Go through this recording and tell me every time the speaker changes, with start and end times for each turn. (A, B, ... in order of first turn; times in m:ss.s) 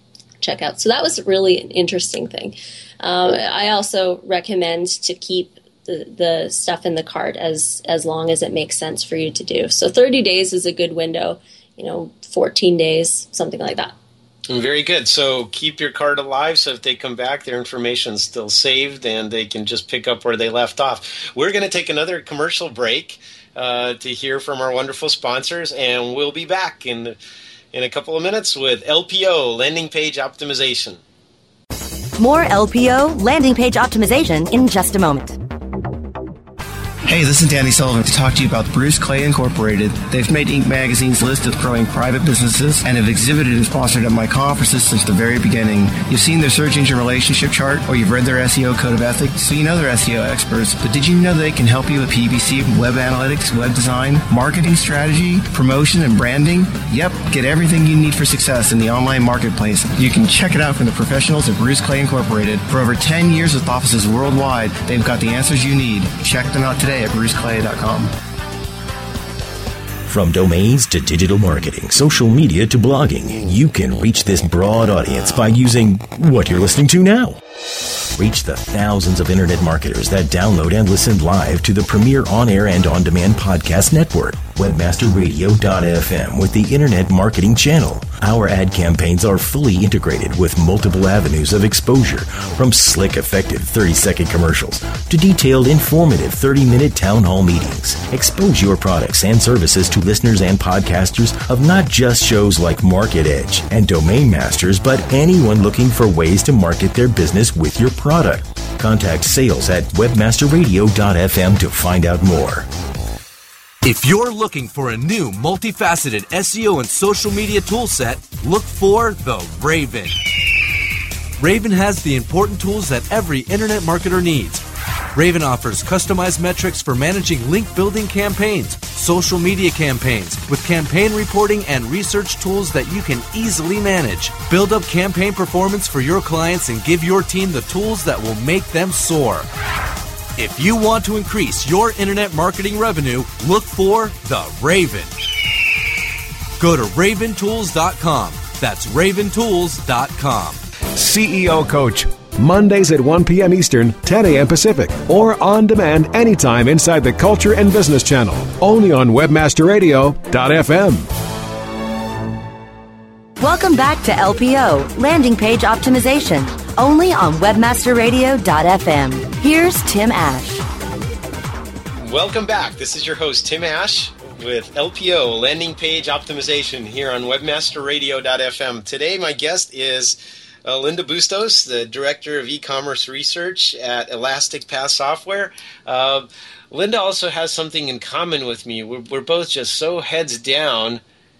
0:00.4-0:13.9 A
0:14.5-0:27.2 B
0:27.7-0:31.0 B
0:32.2-0:35.4 C
0:37.1-1:08.1 D
1:10.0-1:17.4 E
1:18.1-1:52.7 E
1:53.8-2:00.2 F
2:01.4-2:04.6 F
2:05.1-2:19.5 F
2:20.4-2:25.1 F
2:26.6-2:30.6 F
2:31.0-2:41.1 G
2:43.4-2:50.6 C
2:52.0-3:11.0 B